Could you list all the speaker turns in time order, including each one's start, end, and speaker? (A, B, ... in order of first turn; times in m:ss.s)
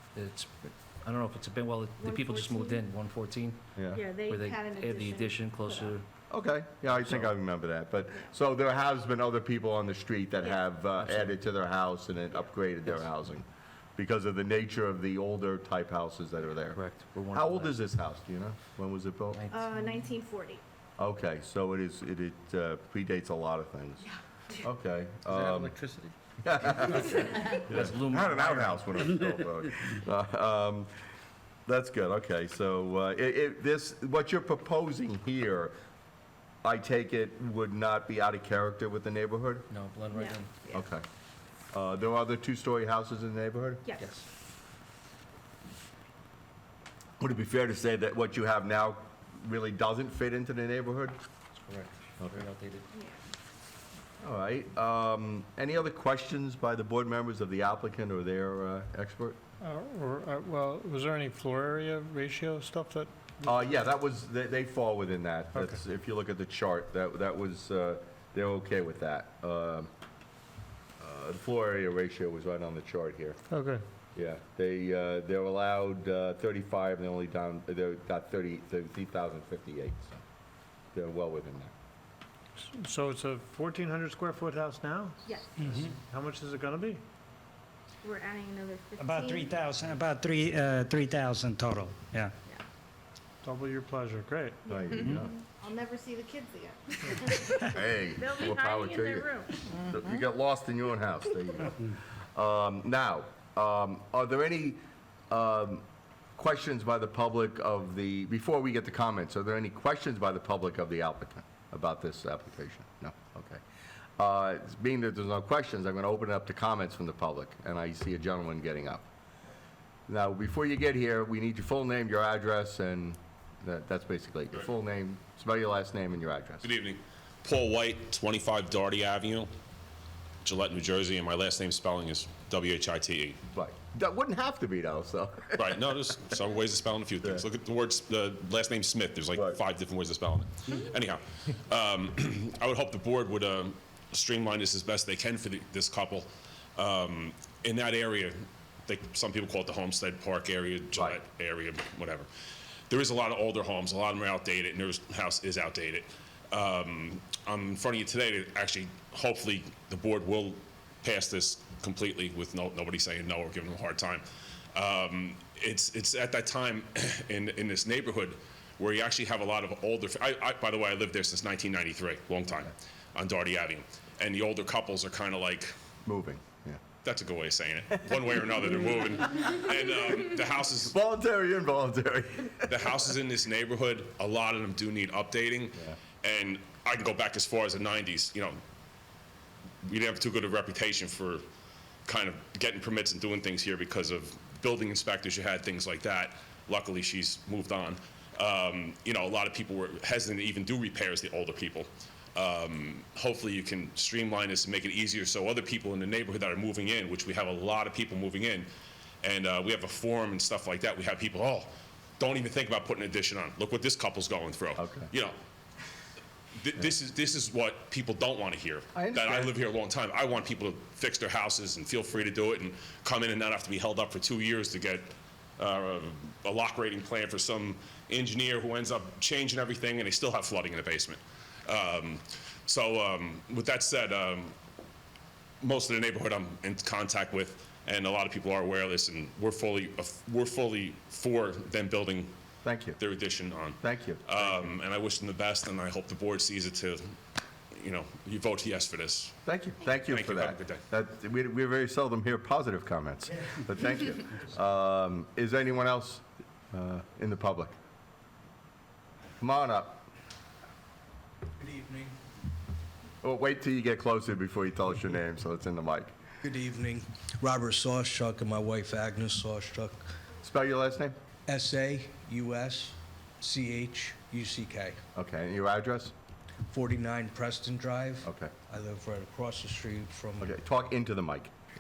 0:00.2-0:03.6 A
0:02.0-0:02.8 B
0:03.8-0:04.0 C
0:03.9-0:06.0 B
0:04.2-0:06.1 A
0:06.3-0:19.4 C
0:06.9-0:07.3 A
0:10.9-0:11.4 A
0:12.9-0:13.1 A
0:16.6-0:17.9 A
0:19.3-0:20.1 A
0:19.5-0:20.6 B
0:21.0-0:24.1 C
0:24.6-0:25.8 C
0:25.5-0:25.9 A
0:26.4-0:30.9 C
0:26.8-0:29.3 A
0:31.7-0:35.7 C
0:36.6-0:39.7 C
0:39.7-0:40.8 A
0:40.7-0:41.0 C
0:41.7-0:43.8 C
0:44.0-0:44.2 A
0:47.2-0:51.2 C
0:51.6-0:52.9 A
0:52.2-0:52.4 C
0:52.9-0:53.2 B
0:54.2-0:59.4 C
0:59.6-1:03.6 D
1:03.4-1:09.9 C
1:11.0-1:13.4 C
1:13.5-1:13.8 D
1:14.2-1:20.2 C
1:20.9-1:21.7 C
1:22.6-1:25.2 D
1:25.2-1:25.7 B
1:25.8-1:27.0 D
1:28.0-1:29.8 B
1:29.0-1:32.3 E
1:33.4-1:34.6 D
1:34.7-1:35.4 C
1:34.7-1:37.6 B
1:37.6-1:44.8 C
1:38.2-1:39.6 B
1:45.3-1:45.8 C
1:46.4-1:53.6 C
1:54.2-1:59.1 C
2:00.1-2:06.7 C
2:06.6-2:09.5 F
2:10.4-2:13.4 F
2:13.5-2:15.8 C
2:15.6-2:28.4 F
2:19.3-2:19.6 C
2:28.9-2:32.3 F
2:32.9-2:44.2 F
2:44.8-2:55.7 F
2:56.0-2:56.8 C
2:57.0-3:00.9 F
3:00.9-3:03.0 C
3:02.7-3:08.6 F
3:09.8-3:11.4 F
3:12.1-3:28.7 F
3:29.2-3:35.4 F
3:34.8-3:35.1 C
3:36.6-3:54.5 F
3:39.0-3:39.6 C
3:55.6-4:02.3 F
4:02.6-4:03.0 C
4:03.0-4:07.2 F
4:03.8-4:04.7 C
4:07.8-4:09.4 F
4:09.5-4:17.7 C
4:10.1-4:10.8 F
4:19.4-4:20.1 C
4:21.6-4:22.1 G
4:23.2-4:26.1 C
4:26.4-4:30.1 G
4:30.4-4:31.2 C
4:31.5-4:35.0 G
4:35.2-4:36.1 C
4:36.7-4:40.5 G
4:38.2-4:38.5 C
4:40.4-4:41.5 C